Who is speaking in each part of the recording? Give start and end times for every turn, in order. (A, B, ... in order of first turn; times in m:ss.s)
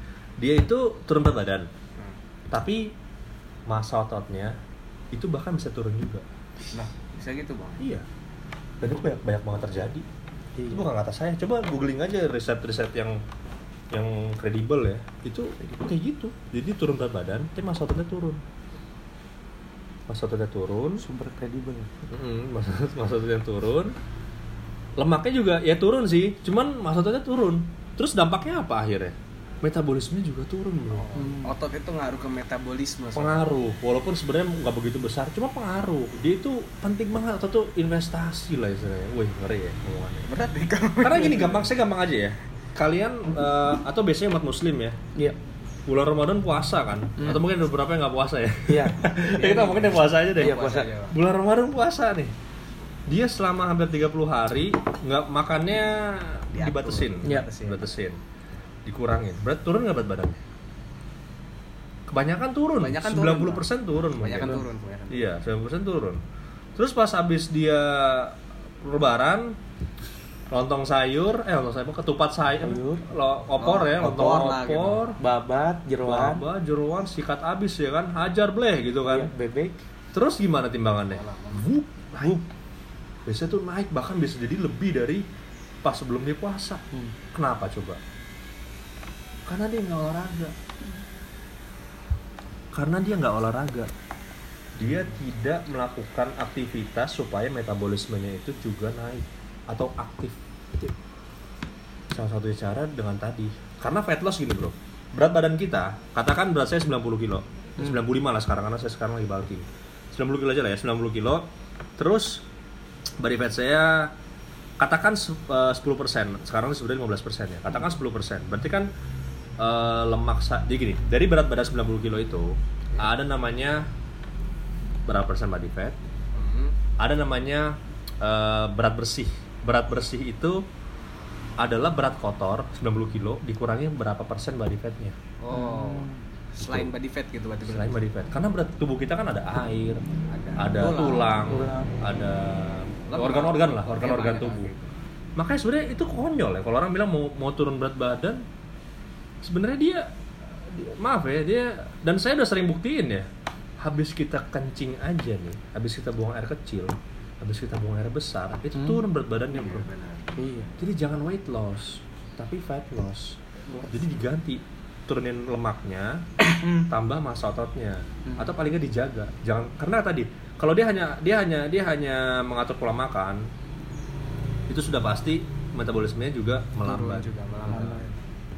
0:00.4-0:01.7 A
0:02.5-0:02.9 A
0:03.7-0:04.6 A
0:05.1-0:06.2 A
0:06.7-0:07.8 B
0:07.8-0:08.0 A
0:08.8-0:10.0 A
0:10.6-0:10.9 C
0:10.7-0:13.2 A
0:13.9-0:18.4 A
0:20.1-0:21.0 A
0:21.0-0:21.9 C
0:22.1-0:23.9 A
0:25.0-0:31.1 A
0:30.9-0:33.5 B
0:31.1-0:31.6 C
0:33.1-0:40.3 A
0:40.3-0:41.7 B
0:41.0-0:45.0 A
0:45.9-0:52.3 A
0:47.2-0:47.4 C
0:48.7-0:49.1 C
0:49.3-0:51.2 B
0:50.3-0:50.9 C
0:53.1-0:58.2 A
0:56.5-0:58.0 B
0:58.8-1:00.4 A
1:02.1-1:06.2 A
1:02.8-1:05.3 B
1:06.8-1:09.6 A
1:10.5-1:15.2 A
1:12.6-1:13.0 C
1:13.6-1:15.1 B
1:15.2-1:16.4 C
1:16.0-1:19.3 A
1:19.1-1:19.8 C
1:20.1-1:22.4 A
1:21.0-1:21.7 B
1:23.2-1:25.2 A
1:25.8-1:28.0 A
1:29.5-1:30.6 A
1:32.7-1:33.9 A
1:34.8-1:40.4 A
1:42.1-1:52.4 A
1:53.2-1:54.1 A
1:54.8-1:58.9 A
1:59.6-2:03.8 A
2:05.1-2:06.0 A
2:06.3-2:06.7 B
2:07.0-2:10.6 A
2:11.6-2:15.2 A
2:15.4-2:18.0 B
2:15.5-2:16.2 C
2:16.6-2:16.9 A
2:17.6-2:20.0 A
2:20.3-2:21.4 B
2:20.6-2:24.7 A
2:21.5-2:21.9 C
2:23.1-2:24.9 B
2:25.4-2:28.4 A
2:29.4-2:33.3 A
2:33.8-2:39.9 A
2:38.8-2:39.0 C
2:39.5-2:40.3 B
2:40.4-2:40.7 C
2:40.8-2:53.5 A
2:46.5-2:46.9 C
2:54.7-2:57.3 A
2:56.8-2:58.2 B
2:57.7-2:58.1 C